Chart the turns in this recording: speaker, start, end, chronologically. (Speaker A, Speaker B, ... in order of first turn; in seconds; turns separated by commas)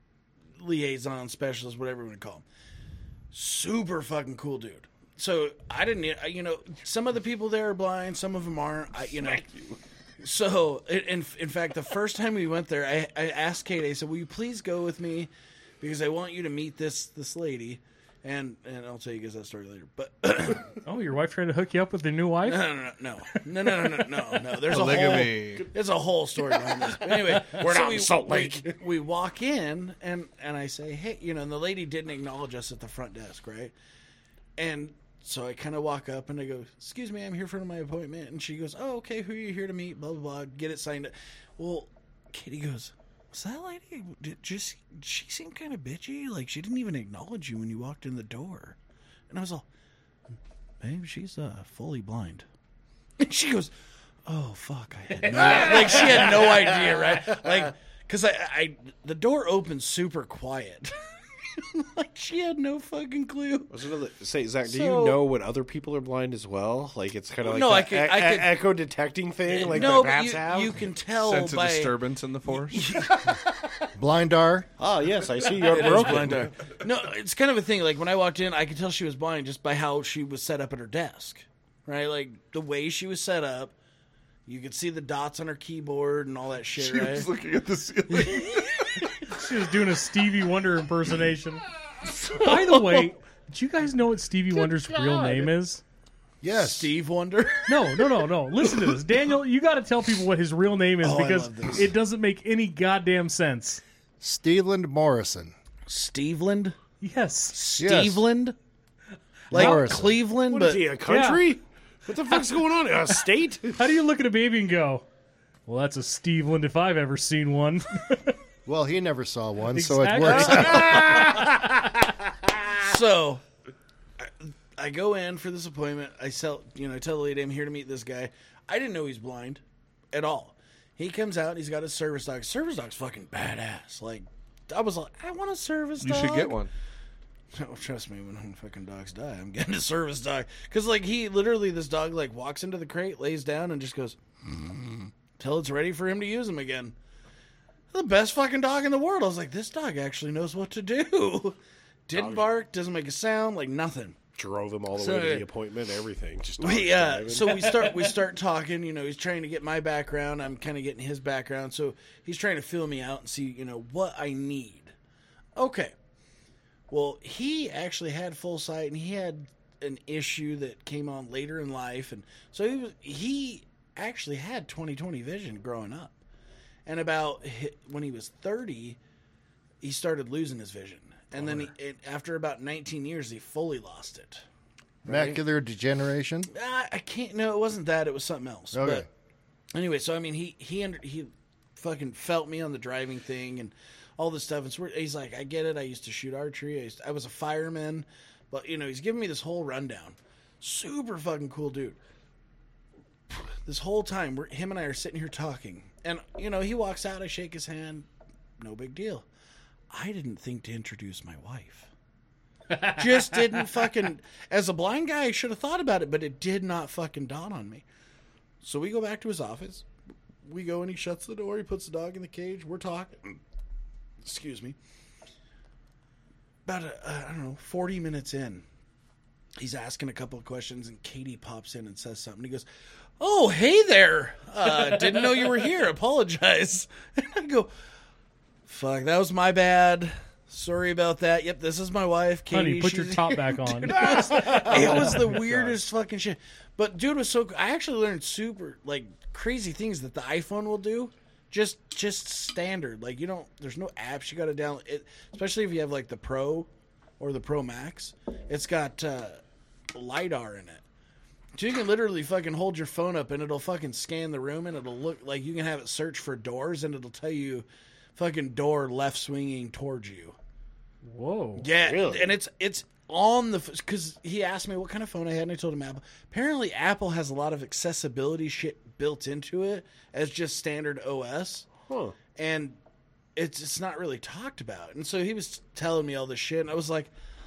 Speaker A: 0.6-2.4, Speaker A: 3.3-9.5, Speaker A: 10.2-15.3, Speaker A: 15.8-20.7, Speaker B: 20.8-22.6, Speaker A: 22.4-33.7, Speaker C: 24.7-25.7, Speaker D: 26.9-28.8, Speaker A: 34.6-48.8, Speaker A: 49.3-49.6, Speaker A: 50.8-52.5, Speaker A: 53.2-53.7, Speaker A: 54.2-60.9, Speaker D: 55.2-57.4, Speaker A: 61.5-63.7, Speaker D: 63.7-70.8, Speaker A: 64.6-65.2, Speaker A: 67.4-68.5, Speaker A: 69.5-72.0, Speaker C: 71.2-72.8, Speaker A: 72.5-73.4, Speaker E: 74.0-74.7, Speaker D: 74.8-76.6, Speaker A: 75.5-83.7, Speaker A: 84.5-87.3, Speaker C: 86.8-89.0, Speaker A: 88.1-88.5, Speaker B: 89.3-91.6, Speaker B: 92.3-95.8, Speaker D: 95.0-95.5, Speaker E: 96.4-96.9, Speaker A: 96.6-97.9, Speaker B: 97.7-103.8, Speaker A: 101.0-101.9, Speaker E: 104.2-105.5, Speaker A: 105.9-106.8, Speaker B: 107.0-107.6, Speaker A: 107.5-108.5, Speaker E: 107.8-108.2, Speaker B: 109.5-110.0, Speaker E: 109.5-110.2, Speaker A: 109.5-110.8, Speaker D: 110.5-113.9, Speaker B: 111.1-111.4, Speaker B: 113.7-115.0, Speaker B: 115.7-118.3, Speaker E: 118.7-121.3, Speaker B: 119.7-121.1, Speaker D: 120.5-121.8, Speaker A: 120.5-121.5, Speaker A: 122.8-123.4, Speaker A: 124.2-129.6, Speaker A: 130.1-136.6, Speaker C: 136.0-136.7, Speaker A: 137.5-146.9, Speaker A: 147.9-154.2, Speaker D: 152.1-152.5, Speaker D: 154.3-157.7, Speaker A: 154.9-155.5, Speaker A: 156.6-164.9, Speaker A: 165.6-165.9, Speaker A: 166.9-176.2, Speaker A: 176.8-179.0, Speaker A: 179.8-184.4, Speaker D: 181.4-181.7, Speaker A: 185.0-185.4, Speaker E: 185.1-186.5, Speaker A: 186.5-189.1, Speaker E: 188.7-189.1, Speaker A: 189.7-202.0, Speaker A: 203.3-208.1, Speaker A: 208.6-209.3, Speaker A: 209.9-211.9, Speaker A: 212.7-217.8, Speaker A: 218.6-219.8, Speaker A: 220.4-223.4, Speaker A: 224.2-224.8, Speaker A: 226.7-228.6, Speaker A: 229.6-232.7, Speaker A: 233.2-237.7, Speaker A: 238.7-256.7, Speaker B: 242.5-245.7, Speaker D: 243.9-245.1, Speaker A: 257.2-259.4, Speaker A: 259.9-260.8, Speaker A: 261.6-270.4, Speaker B: 271.0-271.7, Speaker A: 271.6-281.7, Speaker D: 271.7-272.3, Speaker D: 281.8-282.2, Speaker A: 282.3-282.8, Speaker A: 283.3-287.1